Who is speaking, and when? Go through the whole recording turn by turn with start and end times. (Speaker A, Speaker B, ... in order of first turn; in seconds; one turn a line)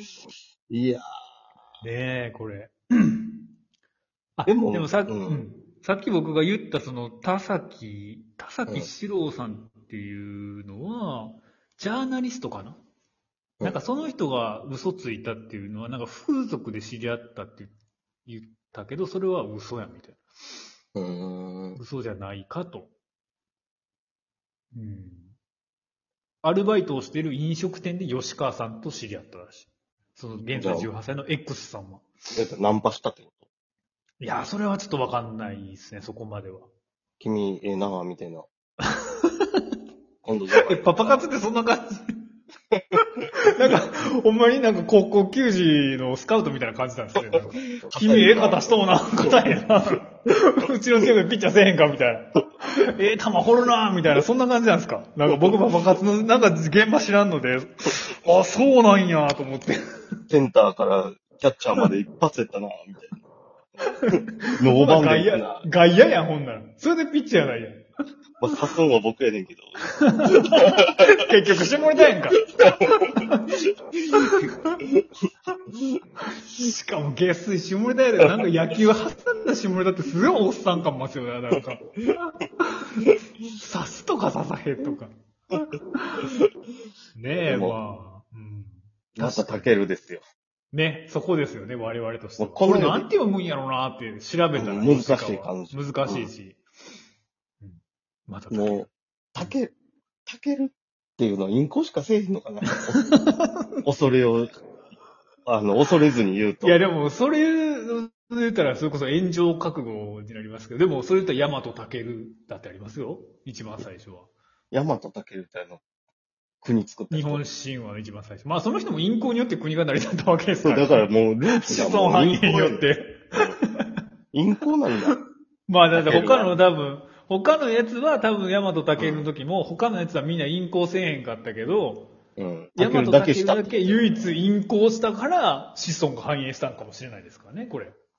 Speaker A: 0.7-1.1
Speaker B: 1.8-3.3
Speaker B: 4.4-12.8
Speaker A: 4.5-5.5
Speaker B: 13.6-17.7
Speaker B: 18.2-20.2
Speaker A: 20.9-21.8
Speaker B: 21.8-22.9
Speaker B: 24.7-25.3
Speaker B: 26.4-32.0
Speaker A: 30.6-30.9
Speaker A: 32.4-33.4
Speaker B: 34.2-36.7
Speaker A: 37.2-38.5
Speaker B: 38.9-39.6
Speaker A: 40.2-41.2
Speaker B: 40.6-42.1
Speaker B: 43.5-59.8
Speaker A: 47.1-49.5
Speaker A: 60.3-63.1
Speaker B: 64.0-67.8
Speaker A: 64.2-65.6
Speaker A: 68.4-70.9
Speaker B: 69.9-73.5
Speaker B: 74.1-74.8
Speaker B: 76.3-86.3
Speaker B: 87.1-89.7
Speaker A: 87.5-87.8
Speaker A: 89.2-90.2
Speaker B: 90.7-96.6
Speaker A: 92.4-93.0
Speaker A: 94.6-96.3
Speaker B: 97.6-99.5
Speaker A: 98.5-99.7
Speaker A: 100.2-103.0
Speaker B: 103.0-103.6
Speaker A: 103.8-104.6
Speaker A: 105.5-106.8
Speaker B: 106.6-114.3
Speaker A: 114.7-115.8
Speaker A: 116.6-117.4
Speaker B: 117.1-123.7
Speaker A: 120.6-123.6
Speaker A: 124.3-125.1
Speaker B: 125.7-132.1
Speaker A: 125.9-126.5
Speaker A: 129.0-129.3
Speaker A: 132.4-134.4
Speaker B: 132.8-137.9